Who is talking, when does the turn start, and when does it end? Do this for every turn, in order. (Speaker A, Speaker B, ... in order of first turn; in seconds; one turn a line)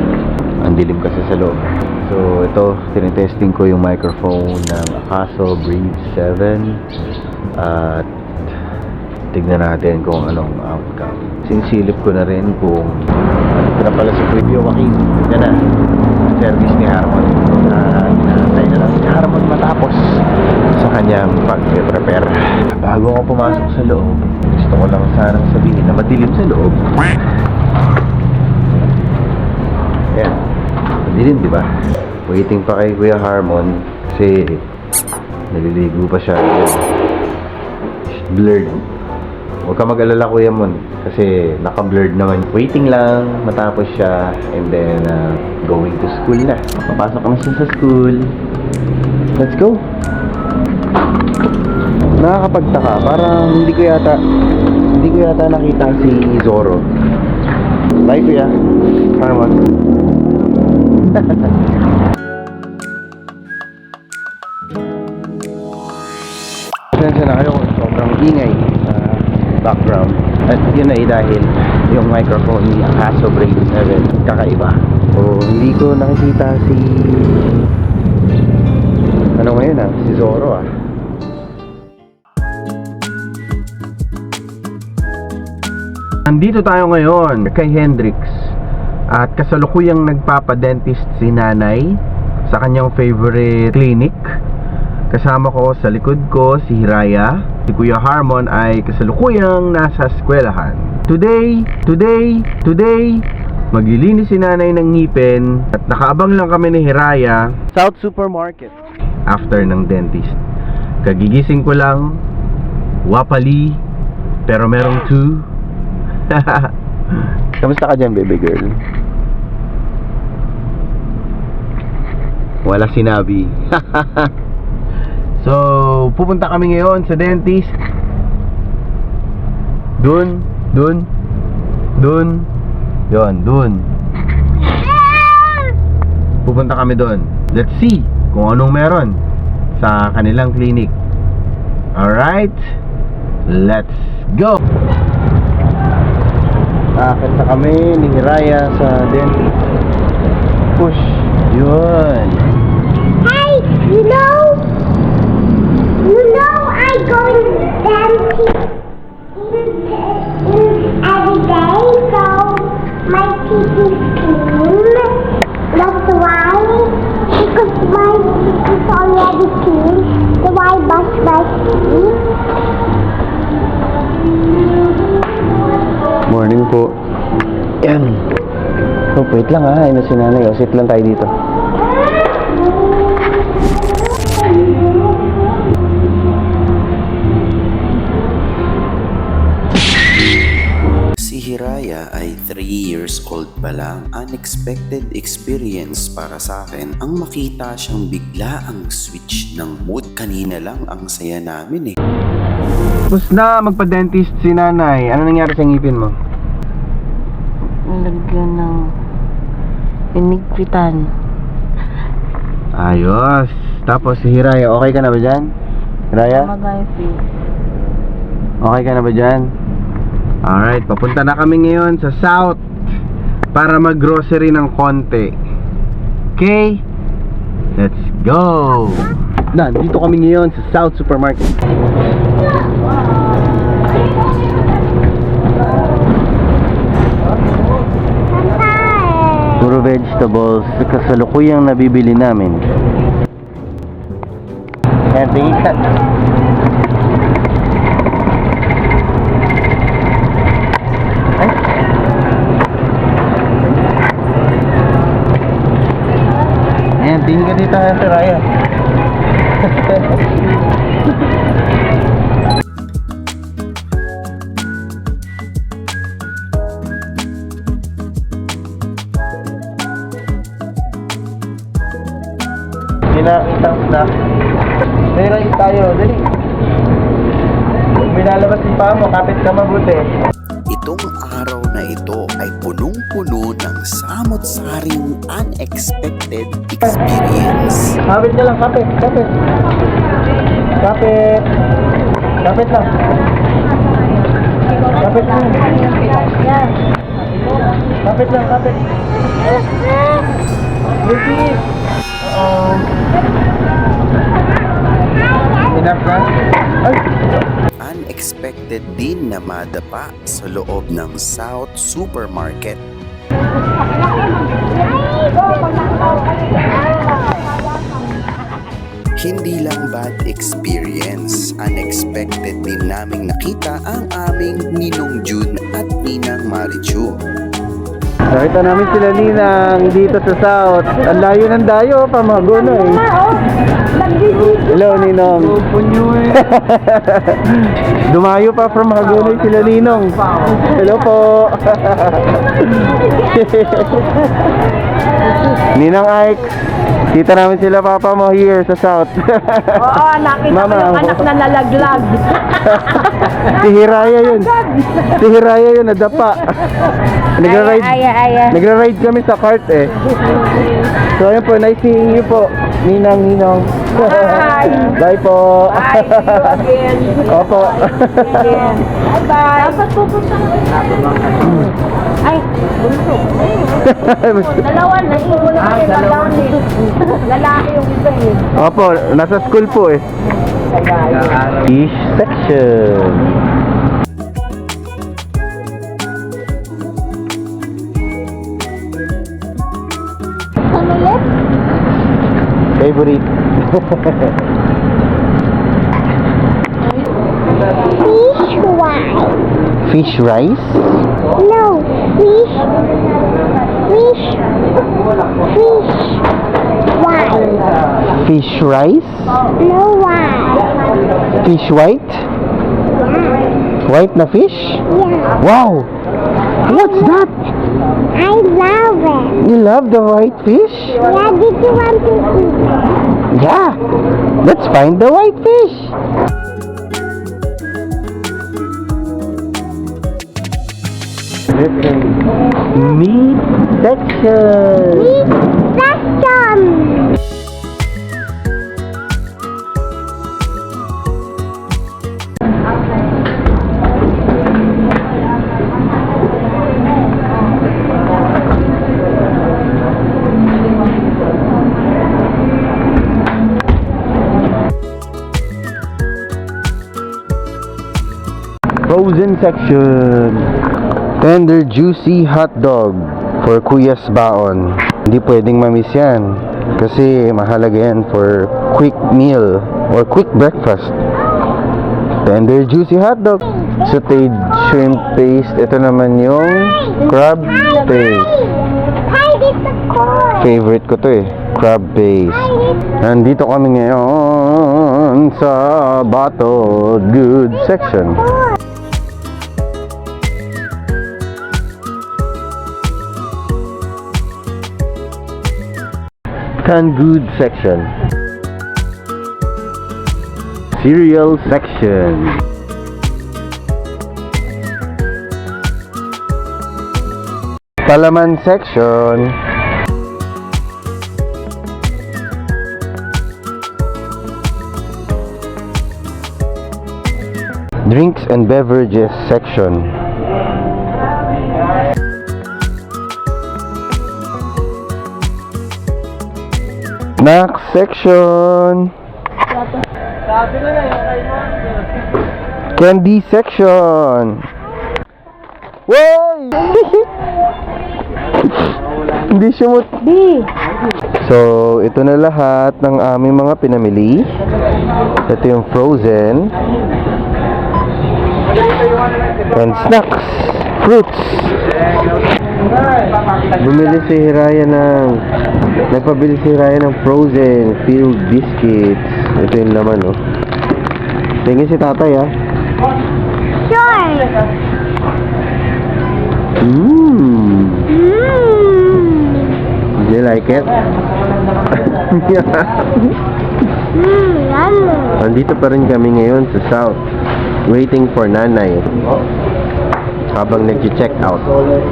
Speaker A: 0.6-6.8
Speaker A: 7.6-8.1
Speaker A: 9.3-13.0
Speaker A: 13.6-15.5
Speaker A: 16.3-20.0
Speaker A: 20.8-27.0
Speaker A: 30.1-30.4
Speaker A: 31.0-31.6
Speaker A: 32.2-34.6
Speaker A: 35.5-36.8
Speaker A: 38.1-38.8
Speaker A: 39.6-48.3
Speaker A: 49.4-49.8
Speaker A: 52.2-54.2
Speaker A: 54.9-56.8
Speaker A: 58.0-58.5
Speaker A: 59.1-59.6
Speaker A: 66.9-77.3
Speaker A: 79.4-80.7
Speaker A: 86.2-88.5
Speaker A: 89.1-94.3
Speaker A: 95.1-108.7
Speaker A: 109.3-110.4
Speaker A: 111.0-112.2
Speaker A: 113.0-113.8
Speaker A: 114.5-115.5
Speaker A: 116.3-116.7
Speaker A: 117.6-118.8
Speaker A: 122.6-124.3
Speaker A: 125.4-127.7
Speaker A: 130.0-131.1
Speaker A: 132.0-132.5
Speaker A: 133.1-133.9
Speaker A: 136.4-139.2
Speaker A: 139.8-140.9
Speaker A: 141.9-142.6
Speaker A: 143.5-144.6
Speaker A: 147.0-149.4
Speaker A: 150.8-152.4
Speaker B: 153.2-154.7
Speaker B: 156.0-158.7
Speaker B: 159.3-172.2
Speaker A: 176.3-176.9
Speaker A: 177.8-178.2
Speaker A: 179.1-181.3
Speaker C: 191.2-201.9
Speaker A: 203.1-206.1
Speaker A: 207.8-208.9
Speaker A: 210.1-211.1
Speaker A: 212.8-215.5
Speaker A: 216.1-216.5
Speaker D: 216.4-217.2
Speaker A: 218.6-219.5
Speaker A: 220.4-222.6
Speaker A: 223.5-225.3
Speaker A: 226.3-226.8
Speaker A: 227.8-231.6
Speaker B: 238.9-239.3
Speaker A: 239.6-242.6
Speaker A: 245.1-245.8
Speaker A: 257.0-258.4
Speaker A: 273.1-274.1
Speaker A: 275.1-276.3
Speaker A: 278.0-280.1
Speaker C: 280.7-287.9
Speaker A: 288.1-289.3
Speaker A: 290.8-291.4
Speaker A: 292.4-292.9
Speaker A: 294.9-296.3
Speaker A: 298.0-298.8
Speaker A: 301.0-301.6
Speaker A: 302.2-302.9
Speaker A: 305.6-307.0
Speaker C: 307.8-312.8
Speaker B: 315.0-315.7
Speaker C: 319.2-327.2
Speaker A: 328.3-333.1
Speaker A: 334.2-344.2
Speaker A: 345.7-346.5
Speaker A: 347.1-356.7
Speaker D: 349.8-352.2
Speaker A: 357.4-360.4
Speaker D: 357.4-358.6
Speaker A: 361.1-368.8
Speaker D: 364.4-364.7
Speaker D: 366.7-367.1
Speaker D: 369.1-370.4
Speaker A: 371.2-371.7
Speaker D: 372.2-373.4
Speaker A: 373.6-376.6
Speaker D: 374.9-375.7
Speaker D: 377.2-378.4
Speaker A: 378.5-380.1
Speaker A: 380.9-383.3
Speaker B: 390.8-391.1
Speaker A: 392.8-394.3
Speaker B: 397.8-399.4
Speaker A: 399.8-401.0
Speaker B: 401.4-402.9
Speaker B: 403.8-404.6
Speaker B: 405.4-406.2
Speaker B: 406.9-407.7
Speaker A: 408.1-409.4
Speaker B: 409.5-410.8
Speaker A: 411.4-412.2
Speaker B: 413.1-413.4
Speaker A: 413.8-414.8
Speaker B: 414.9-415.4
Speaker A: 415.4-415.9
Speaker A: 416.6-417.3
Speaker B: 418.1-419.4
Speaker A: 419.4-421.0
Speaker B: 421.0-422.8
Speaker A: 423.3-423.8
Speaker A: 424.4-425.9
Speaker A: 431.5-432.1
Speaker A: 432.7-435.1
Speaker B: 434.9-437.0
Speaker A: 458.9-460.5
Speaker A: 461.2-471.0
Speaker A: 472.2-478.5
Speaker B: 477.8-480.5
Speaker A: 480.4-488.3
Speaker A: 496.6-497.9
Speaker A: 500.7-502.4
Speaker A: 507.8-509.4
Speaker A: 517.9-519.9
Speaker A: 527.2-528.9
Speaker A: 532.8-534.5
Speaker A: 535.9-537.0
Speaker A: 539.1-540.4
Speaker A: 541.2-544.3
Speaker A: 545.3-546.5
Speaker A: 549.5-551.7
Speaker A: 553.5-555.2
Speaker A: 555.9-560.2
Speaker A: 561.4-562.3
Speaker B: 563.6-564.3
Speaker A: 566.6-567.9
Speaker B: 568.0-569.5
Speaker A: 570.0-570.7
Speaker A: 571.7-572.7
Speaker B: 574.0-575.1
Speaker A: 575.2-577.0
Speaker A: 577.7-578.9
Speaker A: 580.3-581.5